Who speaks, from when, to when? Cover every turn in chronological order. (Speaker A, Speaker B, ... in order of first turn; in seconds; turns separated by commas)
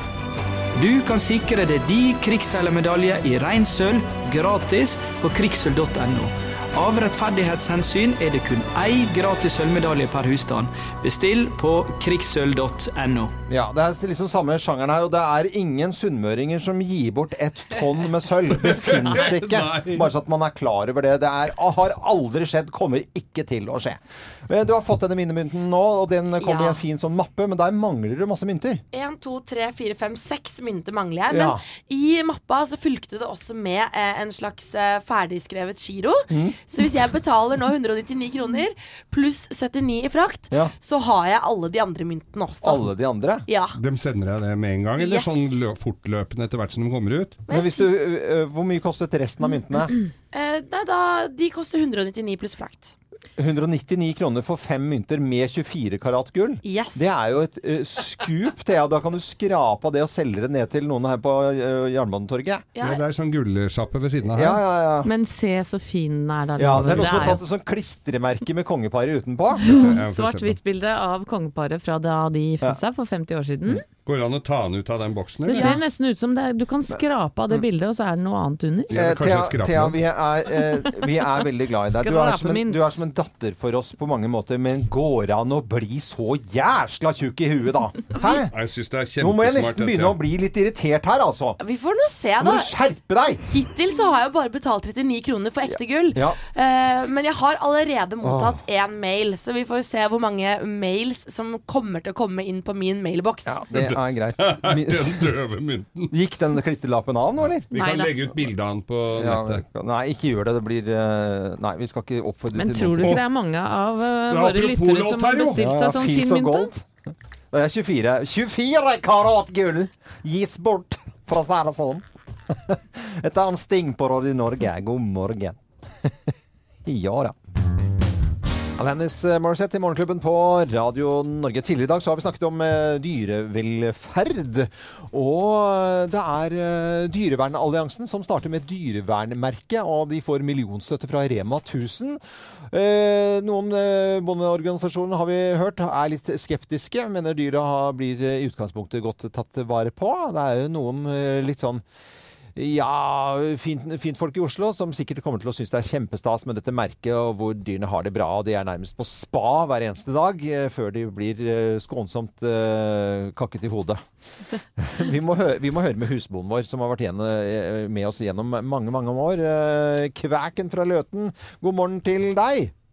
Speaker A: 0.8-13.3, Speaker B: 13.5-28.8, Speaker C: 18.6-20.1, Speaker D: 26.4-26.8, Speaker D: 28.9-42.9, Speaker B: 31.3-31.6, Speaker B: 36.3-36.6, Speaker B: 42.6-43.5, Speaker D: 43.5-43.8, Speaker C: 43.8-47.4, Speaker D: 45.0-45.5, Speaker D: 47.5-47.9, Speaker B: 47.5-50.0, Speaker D: 50.3-52.9, Speaker B: 53.4-62.6, Speaker D: 56.6-57.1, Speaker D: 62.8-63.0, Speaker C: 62.8-64.6, Speaker B: 64.3-65.1, Speaker E: 65.0-67.4, Speaker B: 66.6-70.0, Speaker C: 66.7-67.3, Speaker C: 69.7-70.6, Speaker E: 69.7-73.8, Speaker C: 74.0-75.7, Speaker E: 75.5-79.0, Speaker B: 76.9-77.7, Speaker C: 78.9-80.0, Speaker B: 78.9-88.5, Speaker E: 81.8-83.0, Speaker C: 88.5-90.2, Speaker B: 89.2-91.6, Speaker D: 91.6-92.7, Speaker B: 92.4-93.4, Speaker D: 93.5-103.6, Speaker B: 95.7-96.4, Speaker B: 98.2-98.6, Speaker B: 103.5-105.3, Speaker C: 103.7-106.1, Speaker B: 106.1-107.7, Speaker C: 107.7-109.6, Speaker D: 107.8-108.0, Speaker E: 107.8-108.1, Speaker B: 109.1-113.2, Speaker E: 112.5-116.7, Speaker C: 114.1-115.6, Speaker B: 115.6-116.8, Speaker B: 117.5-126.3, Speaker B: 126.8-127.4, Speaker B: 128.8-151.8, Speaker B: 152.6-164.0, Speaker B: 164.8-172.7